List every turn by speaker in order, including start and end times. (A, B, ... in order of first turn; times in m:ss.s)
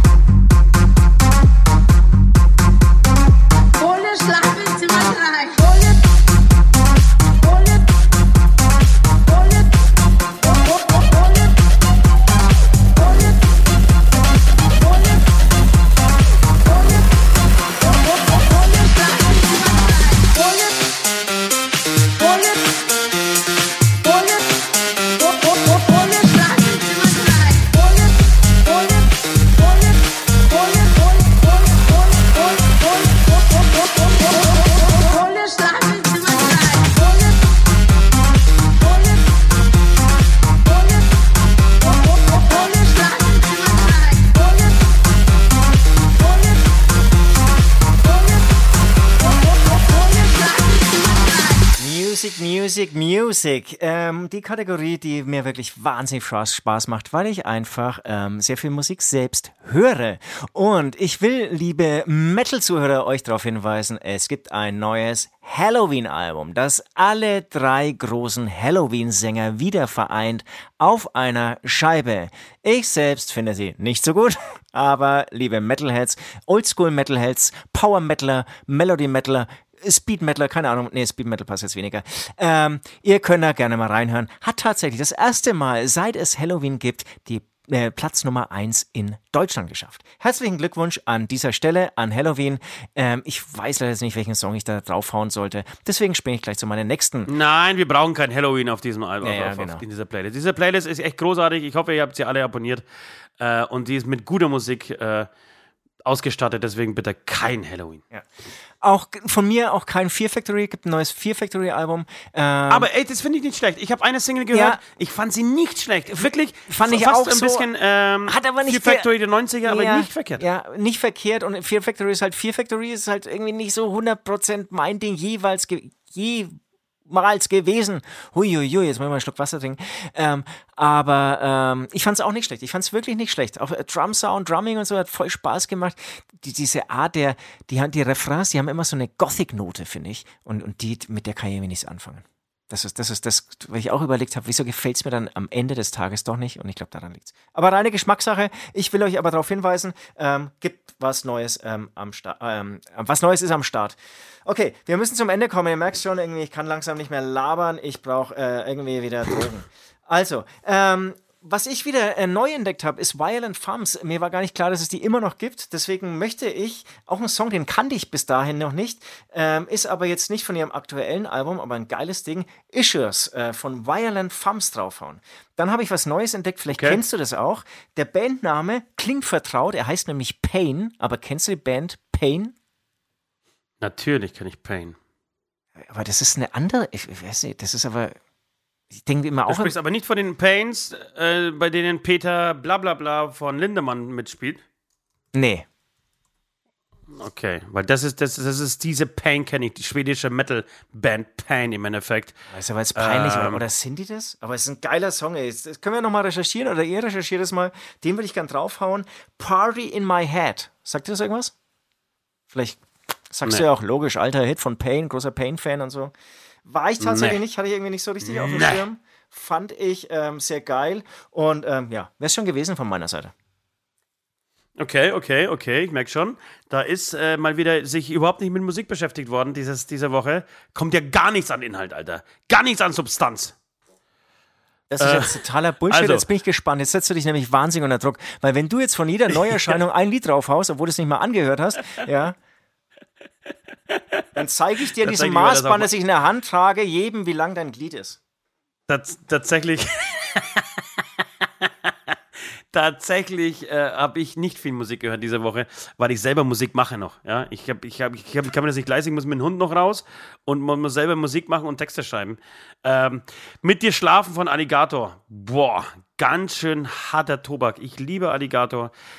0:03.8-0:06.0 A
0:18.3-0:20.6 A
0:25.2-0:28.2 A
0:32.0-0:32.6 A
0:33.6-0:37.2 A
0:42.1-0:44.6 A
0:49.7-0:51.7 A
0:51.8-1:37.3 B
1:37.3-1:42.8 C
1:39.2-1:39.8 B
1:43.4-1:45.3 C
1:46.0-1:48.0 C
1:48.8-1:52.9 B
1:52.7-2:00.4 C
1:54.5-1:54.8 B
1:56.1-1:57.7 B
1:58.3-1:59.1 B
1:59.6-2:06.6 B
2:07.1-3:02.6 B
2:56.7-2:57.0 C
3:03.8-3:05.0 C
3:05.8-3:08.2 B
3:08.9-3:09.7 B
3:09.5-3:14.6 C
3:15.3-3:15.7 B
3:17.1-3:22.4 C
3:22.5-3:31.5 B
3:23.0-3:23.6 C
3:32.5-3:36.1 B
3:36.6-3:43.3 B
3:37.0-3:37.4 C
3:38.2-3:38.8 C
3:44.8-3:53.6 C
3:54.9-4:02.4 B
3:55.0-3:56.2 C
4:03.9-4:04.2 C
4:04.3-4:08.2 B
4:05.0-4:05.9 C
4:08.9-4:10.8 C
4:11.4-4:28.9 C